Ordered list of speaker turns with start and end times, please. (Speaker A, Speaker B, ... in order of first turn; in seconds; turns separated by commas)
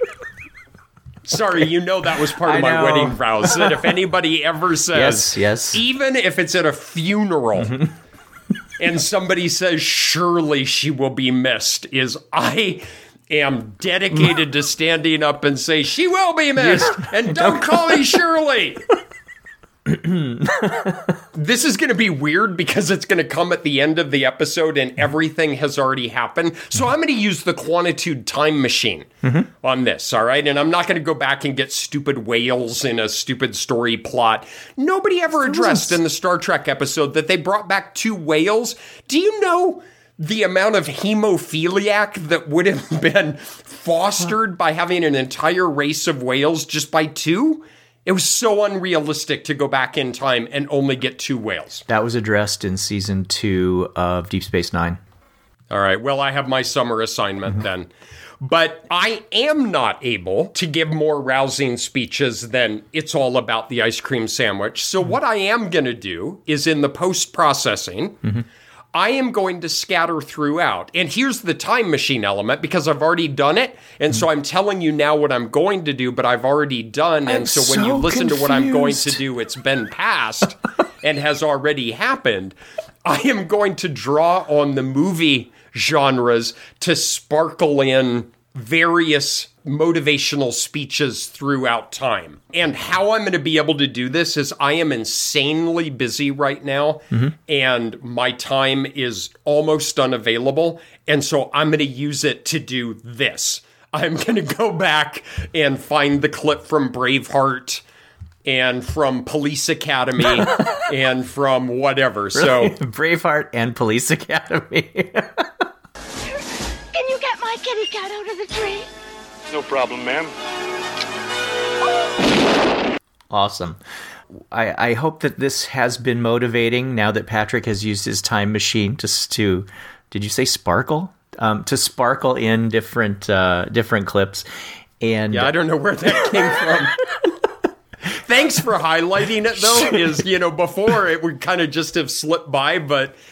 Speaker A: 1.3-7.8, Speaker B: 2.4-3.8, Speaker B: 4.9-5.8, Speaker B: 7.6-7.9, Speaker A: 8.8-18.8, Speaker B: 16.6-18.2, Speaker B: 19.9-21.1, Speaker A: 21.3-29.1, Speaker A: 29.6-51.9, Speaker B: 35.5-35.8, Speaker B: 51.9-55.0, Speaker A: 55.7-57.9, Speaker A: 58.4-68.2, Speaker A: 68.9-107.8, Speaker B: 77.2-79.2, Speaker A: 108.4-112.8, Speaker B: 112.3-115.7, Speaker C: 116.9-118.9, Speaker A: 119.7-120.2, Speaker B: 123.3-123.8, Speaker B: 124.5-134.4, Speaker B: 135.0-135.5, Speaker A: 135.3-137.0, Speaker A: 138.1-143.2